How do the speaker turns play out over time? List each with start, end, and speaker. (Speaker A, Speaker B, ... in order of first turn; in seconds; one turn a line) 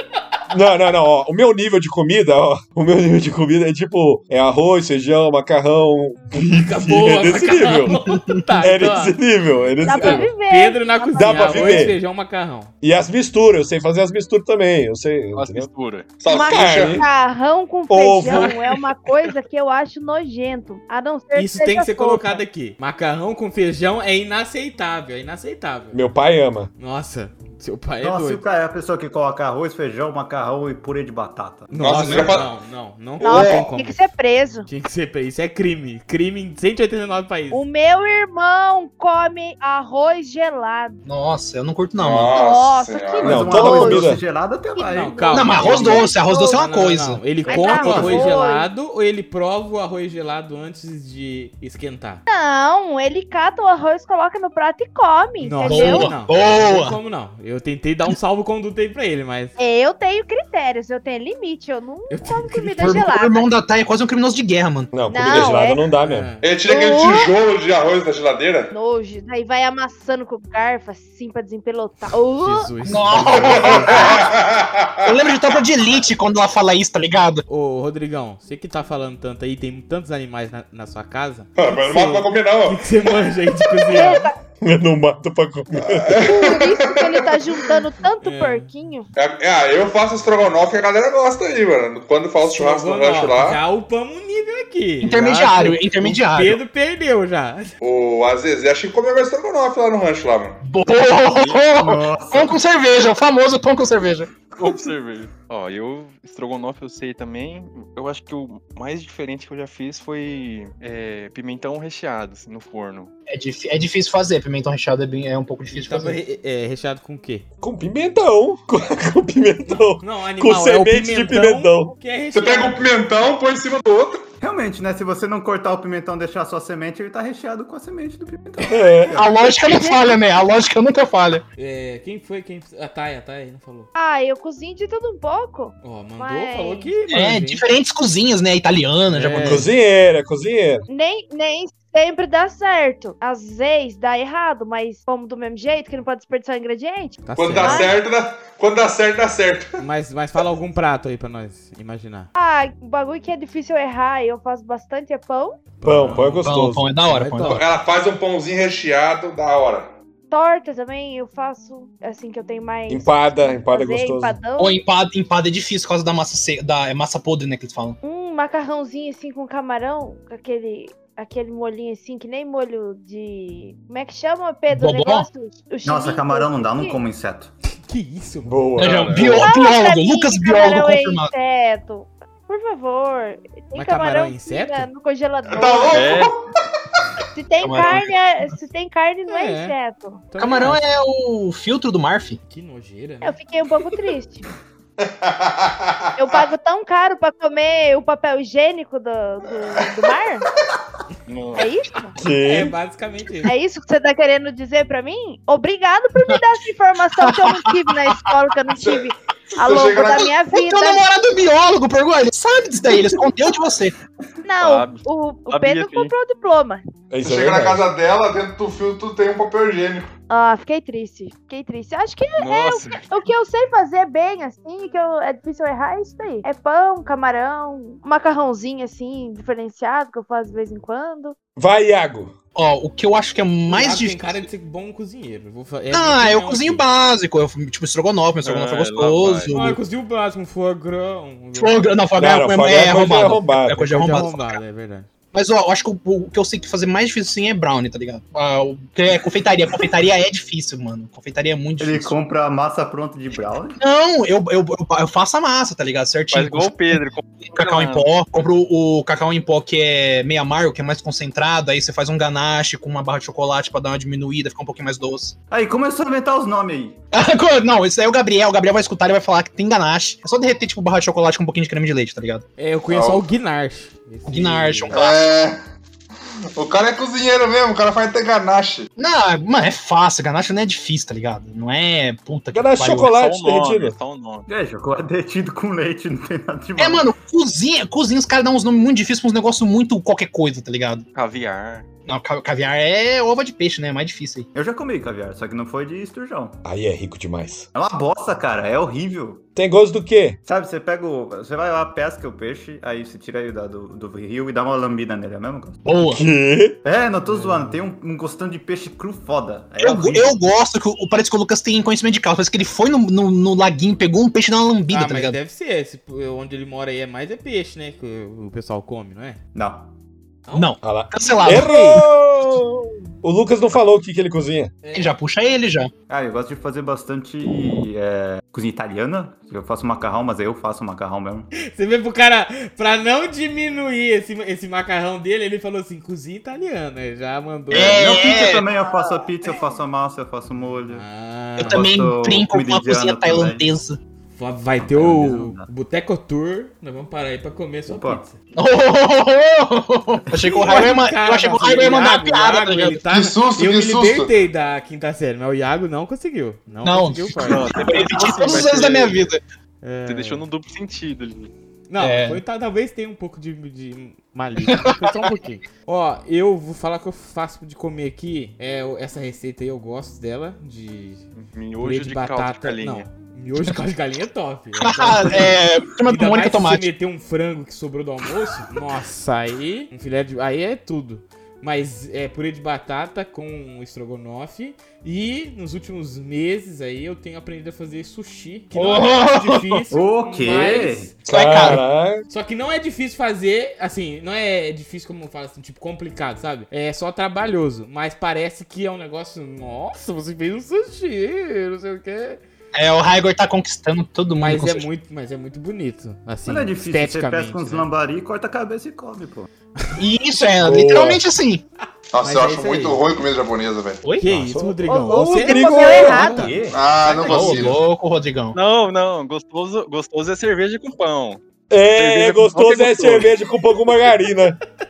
Speaker A: 0.5-8.0
Speaker B: 6.4-9.2
Speaker C: 7.9-8.5
Speaker A: 8.6-10.3
Speaker D: 9.8-11.9
Speaker B: 9.8-12.7
Speaker A: 11.1-12.0
Speaker A: 12.8-15.7
Speaker E: 15.3-16.1
Speaker F: 16.2-17.0
Speaker D: 16.3-22.4
Speaker A: 16.4-17.1
Speaker A: 17.9-18.5
Speaker B: 18.3-18.8
Speaker B: 21.3-26.0
Speaker A: 25.9-26.7
Speaker B: 26.8-28.4
Speaker G: 28.0-32.4
Speaker B: 31.7-34.0
Speaker F: 31.7-32.5
Speaker F: 33.2-33.7
Speaker D: 33.2-34.7
Speaker B: 34.6-37.6
Speaker D: 37.5-41.0
Speaker C: 41.0-42.4
Speaker F: 42.0-43.6
Speaker D: 42.3-44.1
Speaker G: 43.2-46.1
Speaker A: 43.2-44.2
Speaker D: 44.7-46.6
Speaker B: 44.9-52.2
Speaker C: 45.3-47.3
Speaker G: 47.4-48.4
Speaker D: 47.5-48.7
Speaker D: 52.3-56.1
Speaker B: 55.4-59.5
Speaker C: 55.6-57.0
Speaker D: 59.6-63.5
Speaker B: 62.1-62.9
Speaker C: 62.8-64.9
Speaker A: 64.9-66.3
Speaker D: 65.0-65.8
Speaker B: 66.0-66.4
Speaker F: 66.4-68.7
Speaker D: 66.7-67.3
Speaker D: 68.7-72.7
Speaker B: 72.3-74.1
Speaker C: 72.8-74.0
Speaker F: 73.5-75.4
Speaker D: 73.9-74.2
Speaker C: 75.0-77.4
Speaker B: 77.5-84.3
Speaker F: 81.6-82.8
Speaker D: 83.9-84.3
Speaker A: 84.6-86.3
Speaker F: 85.8-87.5
Speaker D: 86.2-89.1
Speaker B: 88.2-88.7
Speaker F: 89.2-93.6
Speaker B: 92.4-97.7
Speaker C: 95.0-96.6
Speaker F: 97.8-100.6
Speaker C: 100.6-104.3
Speaker E: 101.3-101.6
Speaker G: 101.7-102.6
Speaker E: 104.5-113.1
Speaker C: 113.3-116.2
Speaker B: 115.7-117.4
Speaker A: 117.6-121.9
Speaker B: 119.7-122.9
Speaker F: 122.3-124.2
Speaker G: 124.4-129.5
Speaker A: 128.7-129.2
Speaker C: 129.2-131.4
Speaker D: 129.7-130.1
Speaker B: 131.6-133.9
Speaker D: 133.9-136.9
Speaker B: 135.8-137.6
Speaker C: 137.1-139.7
Speaker B: 139.1-139.7
Speaker A: 139.4-140.9
Speaker D: 140.9-147.9
Speaker B: 147.2-147.9
Speaker F: 147.4-149.7
Speaker B: 149.8-152.3
Speaker D: 152.4-155.6
Speaker B: 155.8-156.5
Speaker A: 155.8-156.9
Speaker C: 156.4-157.7
Speaker B: 157.0-157.6
Speaker F: 157.4-159.9
Speaker D: 160.3-164.8
Speaker A: 162.9-164.4
Speaker C: 164.6-168.0
Speaker D: 168.0-177.0
Speaker C: 174.7-175.3
Speaker G: 175.8-177.5
Speaker B: 177.7-178.5
Speaker A: 178.4-179.4
Speaker E: 178.8-179.4
Speaker C: 178.8-181.3
Speaker D: 179.2-186.2
Speaker B: 183.8-184.9
Speaker F: 185.5-186.4
Speaker E: 185.9-186.3
Speaker D: 187.3-190.2
Speaker C: 187.6-188.1
Speaker B: 189.3-189.8
Speaker B: 190.3-190.8
Speaker C: 190.4-192.4
Speaker B: 192.4-193.4
Speaker D: 193.2-194.5
Speaker F: 195.0-196.4
Speaker D: 196.2-200.4
Speaker E: 201.3-201.7
Speaker D: 201.5-202.1
Speaker A: 202.2-202.7
Speaker B: 202.4-203.5
Speaker D: 203.4-211.0
Speaker C: 207.2-208.3
Speaker F: 209.5-210.3
Speaker C: 210.1-213.9
Speaker D: 214.4-216.8
Speaker E: 214.6-216.1
Speaker A: 217.1-217.9
Speaker F: 217.2-220.1
Speaker D: 220.3-231.4
Speaker E: 222.4-223.1
Speaker A: 231.6-232.3
Speaker C: 232.6-234.4
Speaker B: 233.7-236.8
Speaker C: 235.9-239.8
Speaker E: 238.4-239.5
Speaker B: 239.5-241.9
Speaker C: 241.5-244.6
Speaker A: 242.2-244.2
Speaker B: 243.9-245.1
Speaker C: 245.3-252.2
Speaker G: 251.8-253.8
Speaker C: 253.8-265.4
Speaker E: 256.3-258.1
Speaker G: 265.5-267.0
Speaker C: 267.1-272.4
Speaker B: 272.6-275.0
Speaker F: 272.9-273.3
Speaker C: 274.2-275.2
Speaker F: 274.9-275.6
Speaker F: 276.5-278.9
Speaker C: 279.0-283.1
Speaker A: 282.5-283.9
Speaker E: 283.1-284.4
Speaker G: 284.5-287.1
Speaker C: 286.8-291.1
Speaker E: 291.1-291.9
Speaker C: 292.1-294.5
Speaker G: 294.5-296.6
Speaker A: 296.6-297.6
Speaker G: 297.7-299.5
Speaker A: 299.6-300.4
Speaker G: 300.4-305.8
Speaker C: 305.8-306.2
Speaker A: 306.1-306.8
Speaker G: 306.8-310.4
Speaker C: 309.8-315.4
Speaker B: 314.9-319.4
Speaker G: 319.5-319.9
Speaker B: 320.5-320.7
Speaker C: 320.5-322.0
Speaker A: 320.8-324.7
Speaker B: 321.4-322.0
Speaker B: 324.8-325.1
Speaker C: 324.9-325.9
Speaker G: 326.1-331.5
Speaker B: 331.6-338.0
Speaker G: 337.7-341.0
Speaker C: 337.7-338.7
Speaker B: 340.9-341.9
Speaker C: 341.6-344.0
Speaker G: 341.6-343.7
Speaker B: 344.4-348.4
Speaker G: 344.8-345.7
Speaker G: 347.9-348.2
Speaker C: 348.5-353.1
Speaker G: 350.3-350.8
Speaker B: 350.6-357.9
Speaker F: 353.1-354.3
Speaker C: 356.8-359.4
Speaker E: 357.4-359.1
Speaker B: 359.8-360.4
Speaker E: 360.1-361.5
Speaker B: 361.9-371.2
Speaker C: 362.0-362.4
Speaker C: 364.7-365.3
Speaker E: 371.4-373.1
Speaker B: 371.8-391.1
Speaker C: 374.8-376.9
Speaker C: 388.7-389.8
Speaker G: 389.9-391.2
Speaker C: 391.2-391.8
Speaker A: 391.3-392.2
Speaker B: 392.3-402.4
Speaker C: 402.7-404.9
Speaker B: 404.4-407.9
Speaker G: 406.4-409.5
Speaker C: 409.9-411.6
Speaker A: 410.6-411.2
Speaker F: 412.1-414.0
Speaker B: 412.2-413.0
Speaker C: 414.0-414.3
Speaker B: 414.2-416.5
Speaker A: 414.2-416.5
Speaker D: 414.9-416.6
Speaker G: 415.9-417.8
Speaker F: 416.7-417.8
Speaker C: 417.2-418.6
Speaker E: 418.5-421.4
Speaker A: 421.7-424.6
Speaker E: 421.9-423.3